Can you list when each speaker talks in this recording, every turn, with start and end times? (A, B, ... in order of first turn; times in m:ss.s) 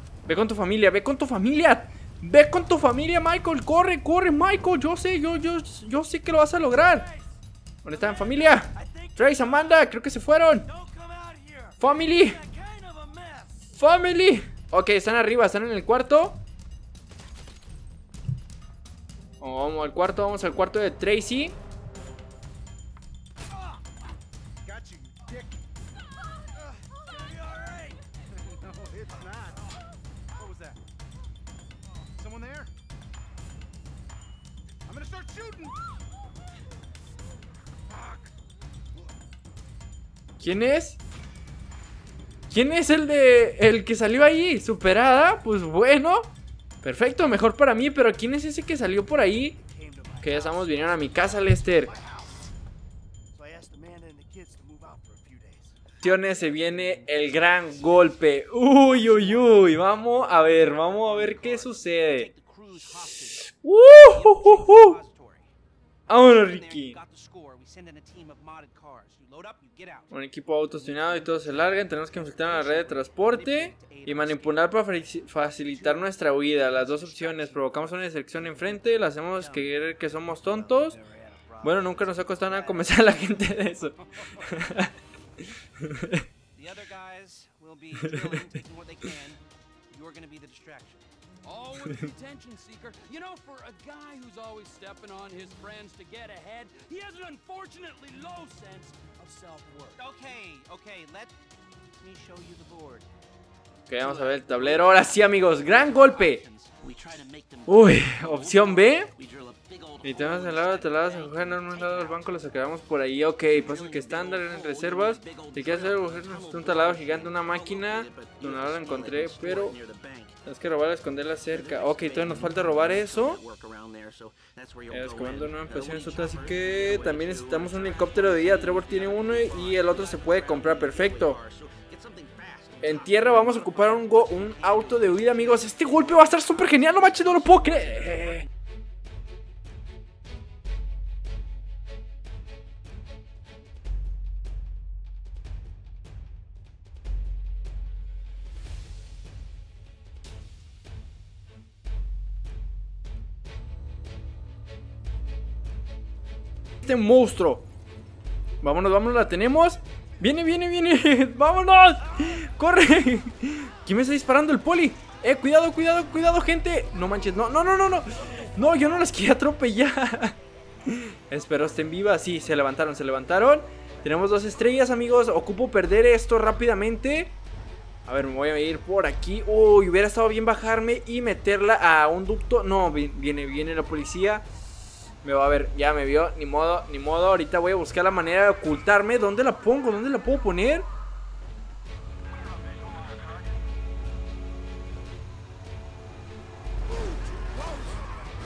0:00.2-0:07.1 A
0:07.8-0:10.7 A
0:07.9-0:09.2 B
0:10.7-0:13.5 B
0:11.8-0:12.4 A
0:13.7-0:16.4 A
0:19.4-0:21.6 A
0:24.8-0:25.4 C
0:29.0-0:29.4 B
0:29.0-0:29.5 C
0:30.4-0:30.7 C
0:32.2-0:32.7 C
0:34.9-0:35.7 C
0:40.4-0:41.0 A
0:42.5-0:49.6 A
0:49.6-0:52.1 B
0:50.2-0:51.9 A
0:53.3-0:55.7 B
0:56.0-1:02.3 A
0:58.9-0:59.5 B
1:00.6-1:03.4 B
1:03.2-1:05.0 A
1:04.0-1:05.5 B
1:06.1-1:07.0 A
1:06.2-1:10.1 B
1:10.1-1:21.0 A
1:10.8-1:14.7 B
1:15.5-1:18.8 B
1:19.4-1:22.9 B
1:21.6-1:26.2 A
1:26.5-1:31.1 B
1:28.1-1:28.4 A
1:31.4-1:40.0 C
1:39.9-1:41.4 B
1:41.9-1:43.1 B
1:43.9-1:46.4 A
1:44.0-1:52.4 B
1:47.6-1:49.1 A
1:50.0-1:59.8 A
1:53.5-2:00.4 B
2:00.4-2:03.4 A
2:01.5-2:18.1 B
2:04.9-2:11.4 A
2:12.8-2:18.5 A
2:36.8-2:37.6 A
2:38.6-2:57.4 A
2:58.0-3:04.5 A
3:05.2-3:10.9 A